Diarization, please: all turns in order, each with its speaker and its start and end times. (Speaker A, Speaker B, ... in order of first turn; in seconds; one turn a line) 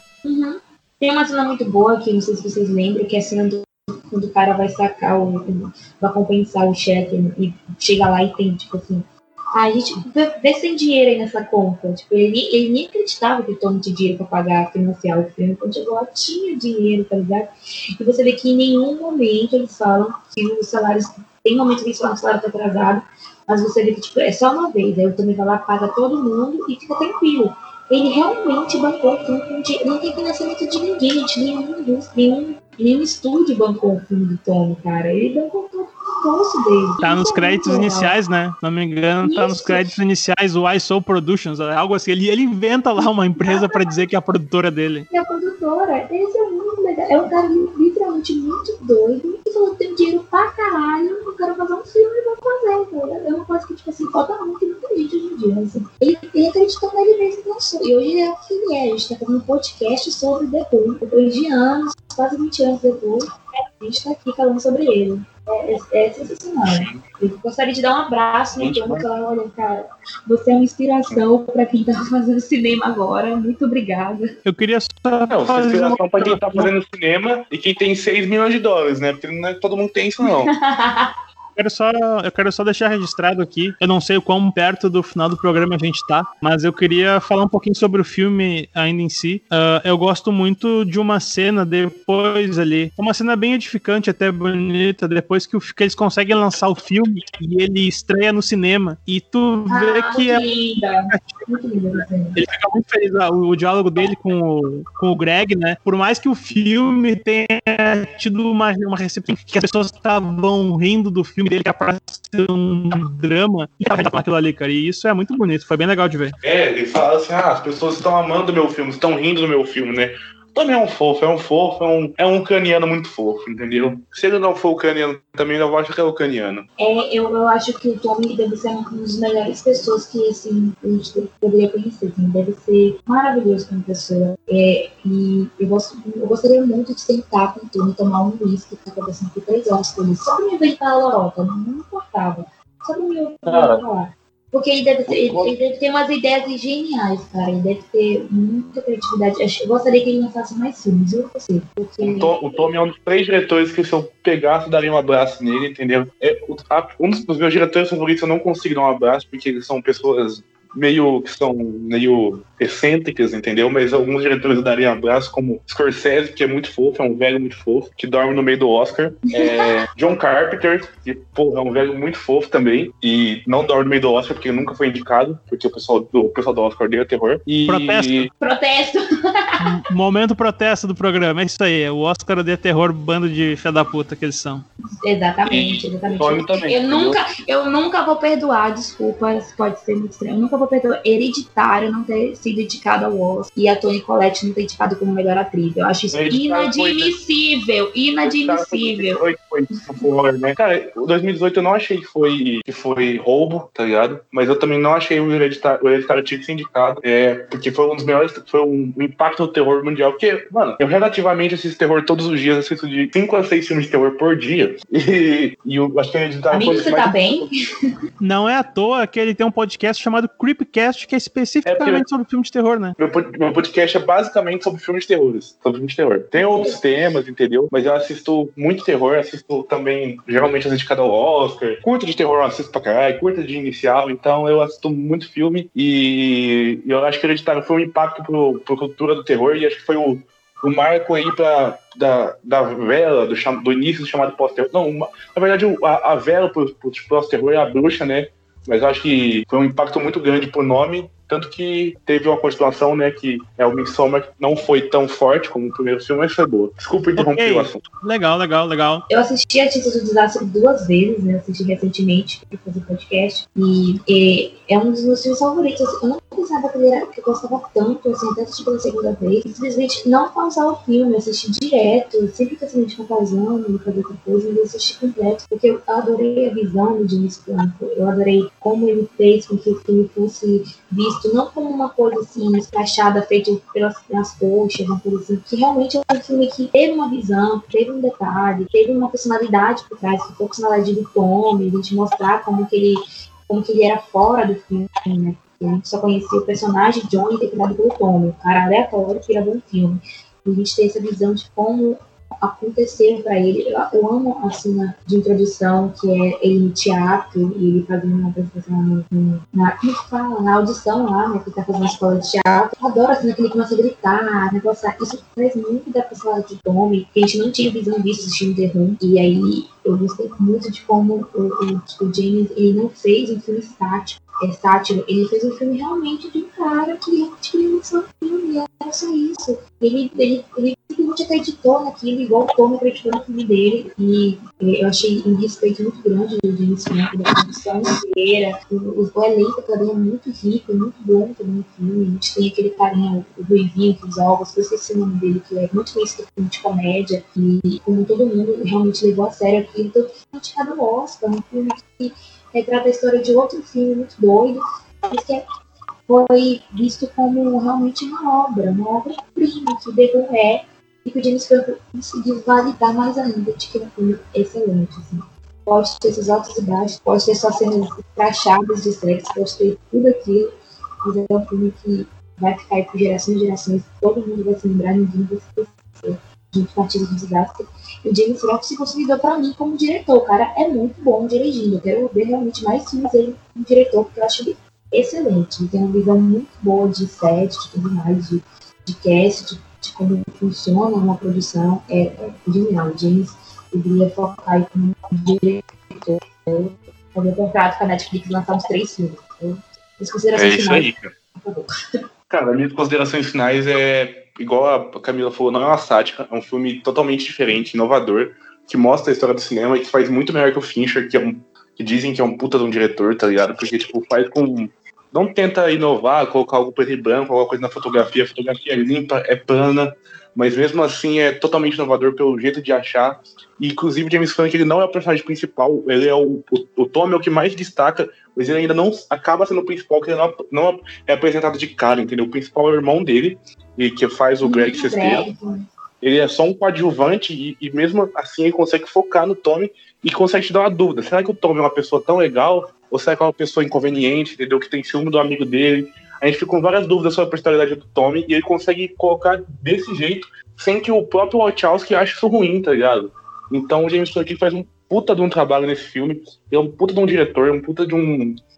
Speaker A: 0.2-38.1
Speaker B: 37.0-45.1
Speaker A: 39.2-39.9
Speaker A: 43.0-44.0
Speaker A: 45.1-74.2
Speaker C: 66.7-67.0
Speaker C: 68.6-69.0
Speaker B: 74.4-76.7
Speaker C: 75.3-80.5
Speaker A: 80.2-81.1
Speaker B: 81.5-100.4
Speaker A: 99.7-102.4
Speaker B: 101.1-101.5
Speaker B: 102.3-116.3
Speaker C: 116.4-126.7
Speaker A: 126.8-152.7
Speaker C: 143.5-143.8
Speaker C: 145.1-145.5
Speaker C: 152.0-178.3
Speaker B: 177.7-178.3
Speaker A: 178.4-179.6
Speaker B: 179.6-184.6
Speaker A: 185.0-199.2
Speaker C: 185.4-187.2
Speaker C: 196.1-197.1
Speaker C: 198.2-217.4
Speaker A: 216.5-217.5
Speaker B: 218.2-222.9
Speaker C: 221.7-222.0
Speaker C: 223.0-257.8
Speaker A: 226.4-226.8
Speaker B: 257.2-259.0
Speaker A: 259.1-355.4
Speaker A: 356.1-370.5
Speaker A: 371.0-402.0
Speaker C: 400.3-401.1
Speaker C: 402.3-435.3
Speaker A: 434.4-435.6
Speaker C: 436.0-458.3